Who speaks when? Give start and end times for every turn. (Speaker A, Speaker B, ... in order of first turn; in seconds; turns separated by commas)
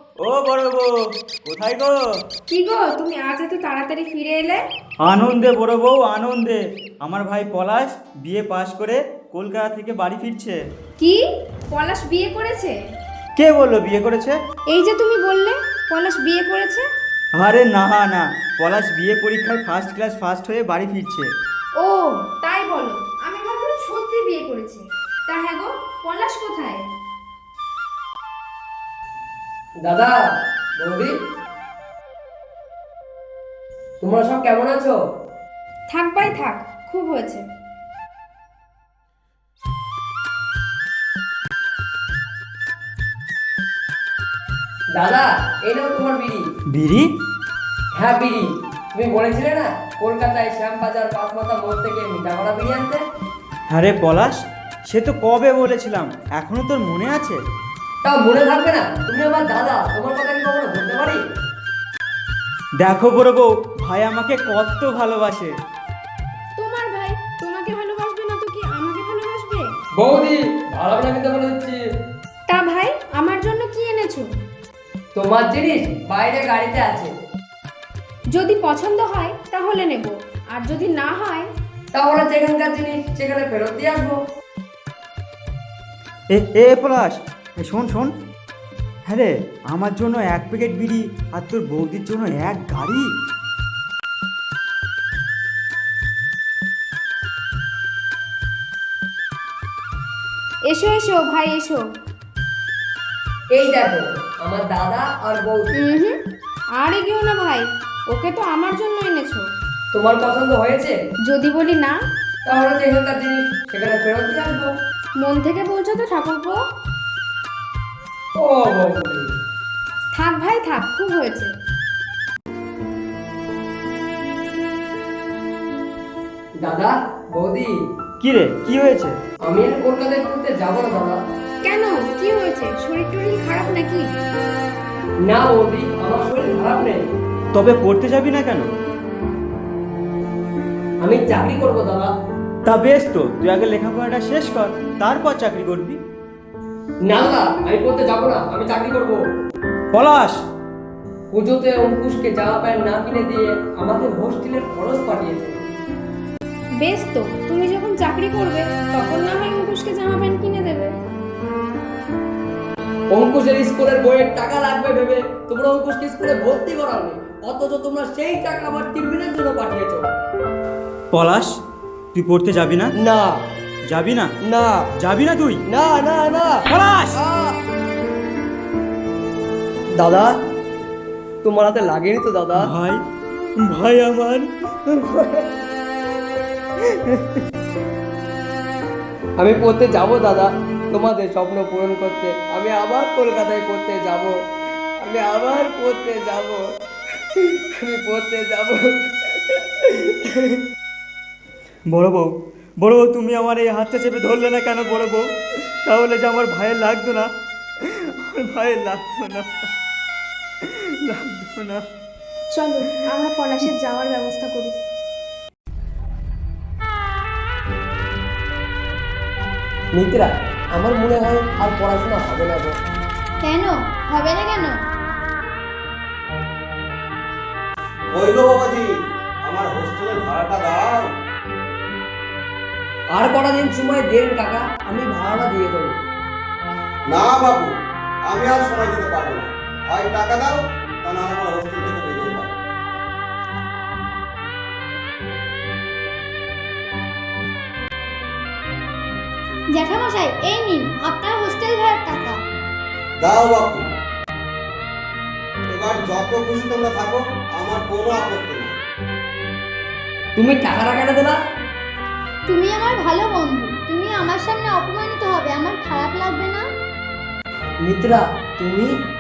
Speaker A: 0.2-0.9, Speaker A: 1.5-1.9, Speaker B: 2.5-4.6, Speaker A: 5.1-10.6, Speaker B: 11.7-12.7, Speaker A: 13.4-14.3, Speaker B: 14.7-16.9, Speaker A: 17.4-21.3, Speaker B: 21.8-26.9, Speaker C: 29.9-30.1, Speaker C: 30.8-31.1, Speaker C: 34.0-35.0, Speaker B: 35.9-37.4, Speaker C: 45.0-46.5, Speaker A: 46.7-47.1, Speaker C: 48.0-53.0, Speaker A: 53.7-57.4, Speaker C: 58.0-61.2, Speaker A: 62.8-65.5, Speaker B: 66.6-69.7, Speaker C: 70.0-71.8, Speaker B: 72.5-74.3, Speaker C: 75.1-77.1, Speaker B: 78.3-81.5, Speaker C: 81.9-84.2, Speaker A: 86.3-88.1, Speaker A: 89.1-93.0, Speaker B: 100.7-101.8, Speaker C: 103.5-105.7, Speaker B: 105.8-106.2, Speaker B: 106.8-109.5, Speaker C: 109.9-110.9, Speaker B: 111.3-111.9, Speaker C: 112.5-114.7, Speaker B: 115.2-116.6, Speaker C: 118.4-119.3, Speaker B: 120.2-121.5, Speaker C: 126.6-127.7, Speaker A: 128.2-129.2, Speaker C: 129.4-131.2, Speaker B: 131.6-134.1, Speaker C: 135.2-137.0, Speaker A: 137.5-138.7, Speaker C: 141.0-142.1, Speaker A: 142.7-146.0, Speaker C: 147.1-149.2, Speaker A: 149.9-150.4, Speaker C: 151.3-155.7, Speaker B: 156.8-160.9, Speaker C: 163.1-170.1, Speaker A: 171.1-171.5, Speaker A: 172.1-172.9, Speaker C: 173.0-173.4, Speaker A: 173.9-174.3, Speaker C: 174.5-174.9, Speaker A: 175.0-175.6, Speaker C: 175.7-176.6, Speaker A: 176.7-177.2, Speaker C: 177.1-177.6, Speaker C: 180.0-180.3, Speaker C: 181.4-182.7, Speaker A: 182.6-183.0, Speaker A: 183.7-185.3, Speaker C: 189.4-194.3, Speaker C: 195.0-196.6, Speaker C: 197.4-200.6, Speaker A: 201.9-202.3, Speaker A: 202.8-205.2, Speaker A: 205.9-207.3, Speaker A: 207.8-209.4, Speaker A: 210.6-211.8, Speaker B: 212.5-214.7, Speaker C: 220.0-222.7, Speaker D: 223.4-224.8, Speaker E: 228.1-228.9, Speaker E: 229.4-231.1, Speaker C: 233.1-236.0, Speaker E: 237.1-237.7, Speaker E: 238.3-242.5, Speaker D: 249.7-252.4, Speaker E: 253.2-253.8, Speaker E: 255.7-258.7, Speaker C: 260.4-261.4, Speaker D: 262.5-266.6, Speaker C: 267.8-268.9